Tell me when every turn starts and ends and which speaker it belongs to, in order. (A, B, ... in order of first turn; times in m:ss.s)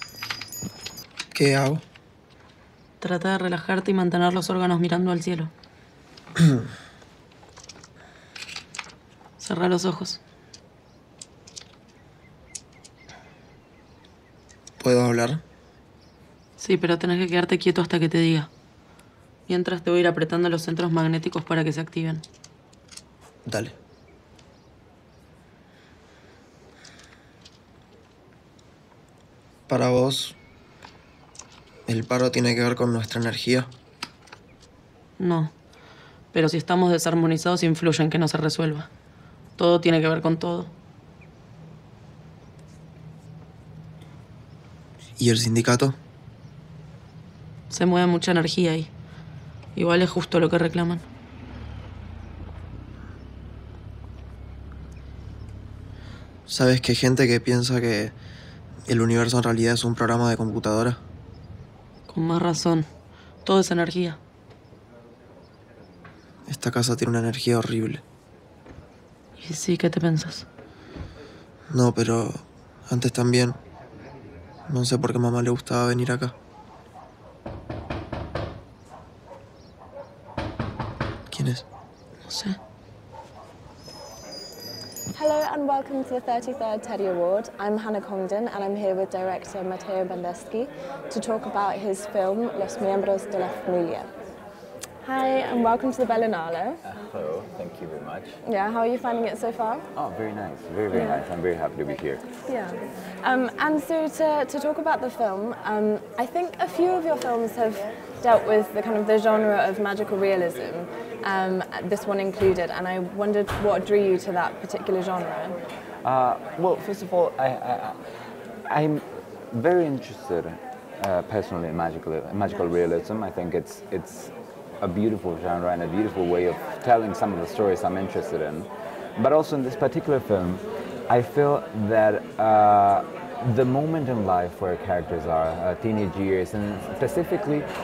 0:01.3-0:01.8 A
0:03.0-0:05.5 B
0:09.4-0:10.2 B
0:14.8-0:15.4 A
0:16.6-0:18.5 B
0:19.5-0:22.2 B
0:23.5-0:23.8 A
0:29.7-0:30.4 A
0:31.9-0:33.7 A
0:35.2-0:35.5 B
0:36.3-0:38.9 B
0:39.6-0:40.7 B
0:45.2-0:46.0 A
0:47.7-0:48.9 B
0:49.8-0:51.0 B
0:56.5-0:58.1 A
0:58.9-1:01.0 A
1:02.1-1:02.9 B
1:03.4-1:04.2 B
1:06.5-1:08.0 A
1:09.4-1:10.5 B
1:11.7-1:13.6 A
1:14.7-1:16.3 A
1:21.3-1:21.6 A
1:22.3-1:22.6 B
1:25.1-1:34.1 C
1:35.0-1:36.8 C
1:36.8-1:38.4 D
1:38.4-1:39.9 C
1:40.0-1:42.2 D
1:40.9-1:41.2 C
1:42.5-1:55.6 C
1:56.0-1:58.0 D
1:58.7-2:17.7 D